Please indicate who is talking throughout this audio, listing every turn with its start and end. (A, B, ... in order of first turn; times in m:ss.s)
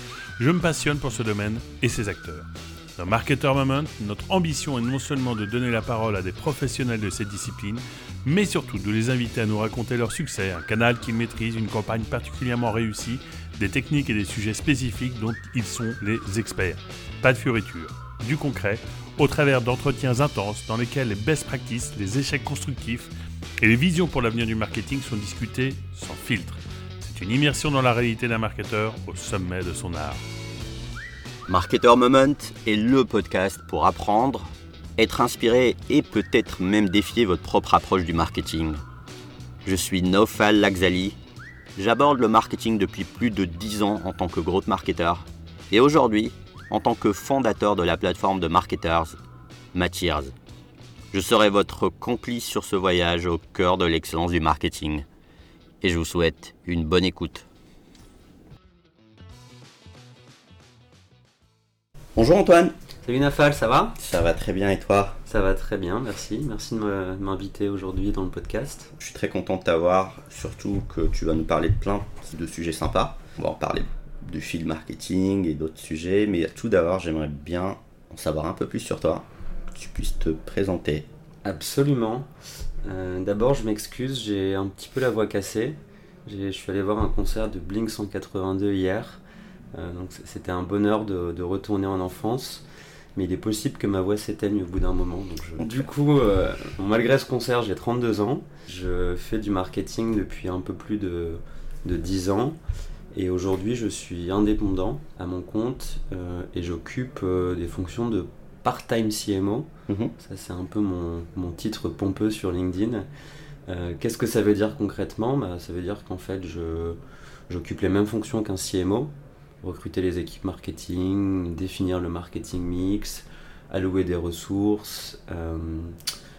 0:00.4-0:30.2 A
0:31.5-0:38.8 B
0:39.6-0:41.2 B
0:41.8-0:49.2 B
0:49.7-0:50.3 B
0:51.1-0:55.0 B
0:55.8-0:57.4 B
1:02.2-1:02.7 B
1:03.0-1:04.0 C
1:04.0-1:05.2 B
1:05.3-1:08.9 C
1:09.0-1:21.0 B
1:21.4-1:22.3 C
1:22.8-1:29.2 C
1:29.7-1:32.6 C
1:33.2-1:42.6 C
1:35.6-1:35.8 B
1:43.1-1:53.0 C
1:53.7-1:59.1 C
1:59.6-2:06.0 C